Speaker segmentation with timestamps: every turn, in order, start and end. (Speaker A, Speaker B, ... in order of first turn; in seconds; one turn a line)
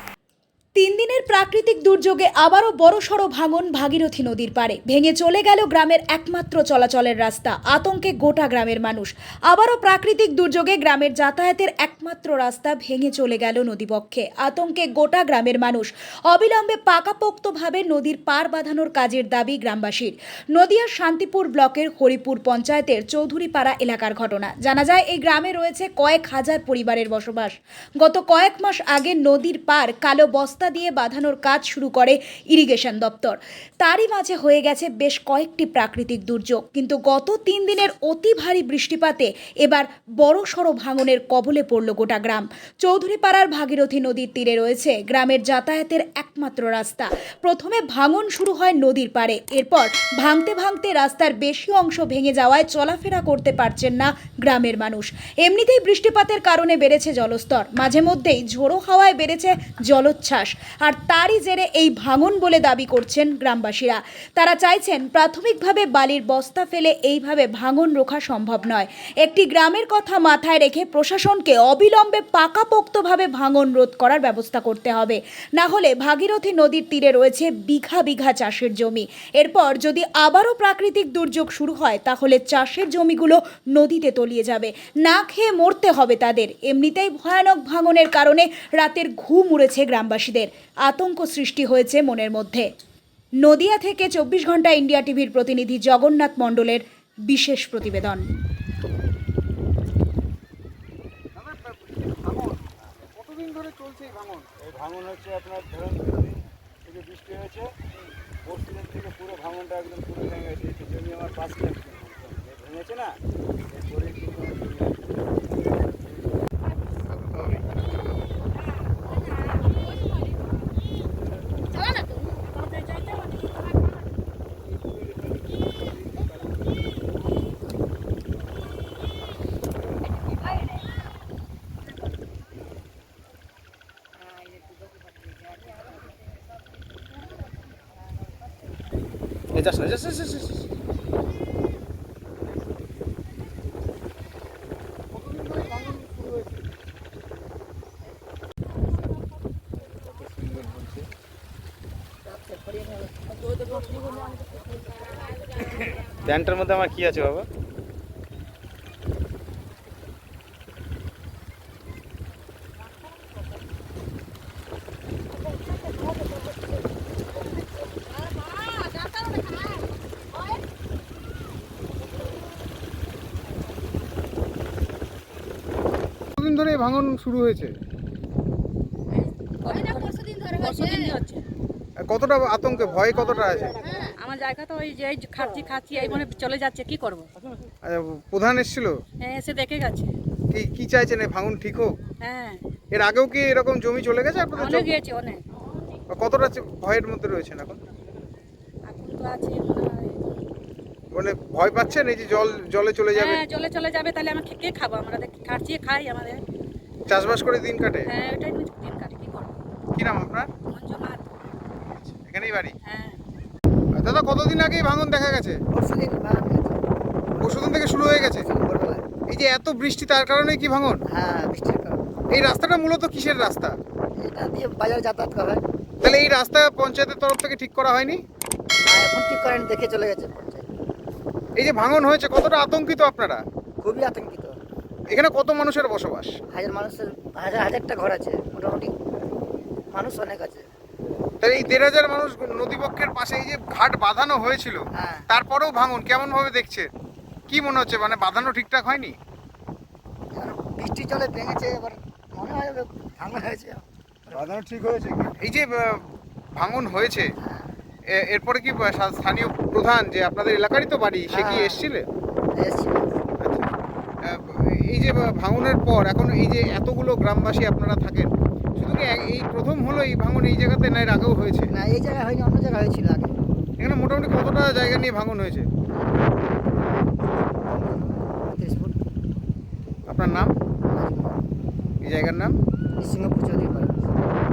Speaker A: 0.8-92.7
Speaker A: 93.4-98.2
Speaker B: 101.4-104.5
Speaker C: 104.6-107.7
Speaker C: 108.4-113.2
Speaker C: 113.7-115.1
Speaker C: 115.6-116.3
Speaker D: 122.5-123.0
Speaker B: 139.5-140.6
Speaker B: 145.2-146.4
Speaker B: 150.2-151.0
Speaker E: 152.3-153.1
Speaker B: 156.2-157.4
Speaker B: 176.4-177.7
Speaker D: 179.6-181.4
Speaker B: 182.1-184.0
Speaker D: 183.9-187.3
Speaker B: 187.8-188.9
Speaker D: 189.2-190.1
Speaker B: 190.5-191.9
Speaker D: 192.2-192.6
Speaker B: 192.9-194.9
Speaker D: 194.6-195.4
Speaker B: 196.1-197.8
Speaker D: 198.9-200.6
Speaker B: 201.1-203.4
Speaker D: 203.1-206.4
Speaker B: 207.1-208.1
Speaker D: 208.1-209.5
Speaker B: 209.9-210.5
Speaker D: 210.7-211.4
Speaker B: 211.9-212.7
Speaker D: 212.8-213.2
Speaker B: 213.9-215.6
Speaker E: 215.7-216.8
Speaker B: 217.4-218.5
Speaker E: 218.1-219.1
Speaker B: 219.3-221.0
Speaker E: 221.1-222.1
Speaker B: 222.3-223.8
Speaker E: 224.2-225.6
Speaker B: 226.0-228.2
Speaker E: 228.8-230.7
Speaker B: 231.6-233.4
Speaker E: 233.8-234.6
Speaker B: 235.1-236.4
Speaker E: 236.5-238.9
Speaker E: 239.9-240.7
Speaker B: 241.4-246.9
Speaker E: 244.9-245.2
Speaker B: 247.5-249.2
Speaker E: 250.3-254.5
Speaker B: 254.3-257.3
Speaker E: 257.4-257.7
Speaker B: 258.1-262.0
Speaker E: 261.4-261.8
Speaker E: 262.5-263.1
Speaker B: 264.2-271.7
Speaker E: 271.7-273.3
Speaker B: 273.8-275.7
Speaker E: 277.6-279.0
Speaker B: 280.1-280.5
Speaker E: 280.9-281.3
Speaker B: 282.0-282.6
Speaker E: 283.0-284.0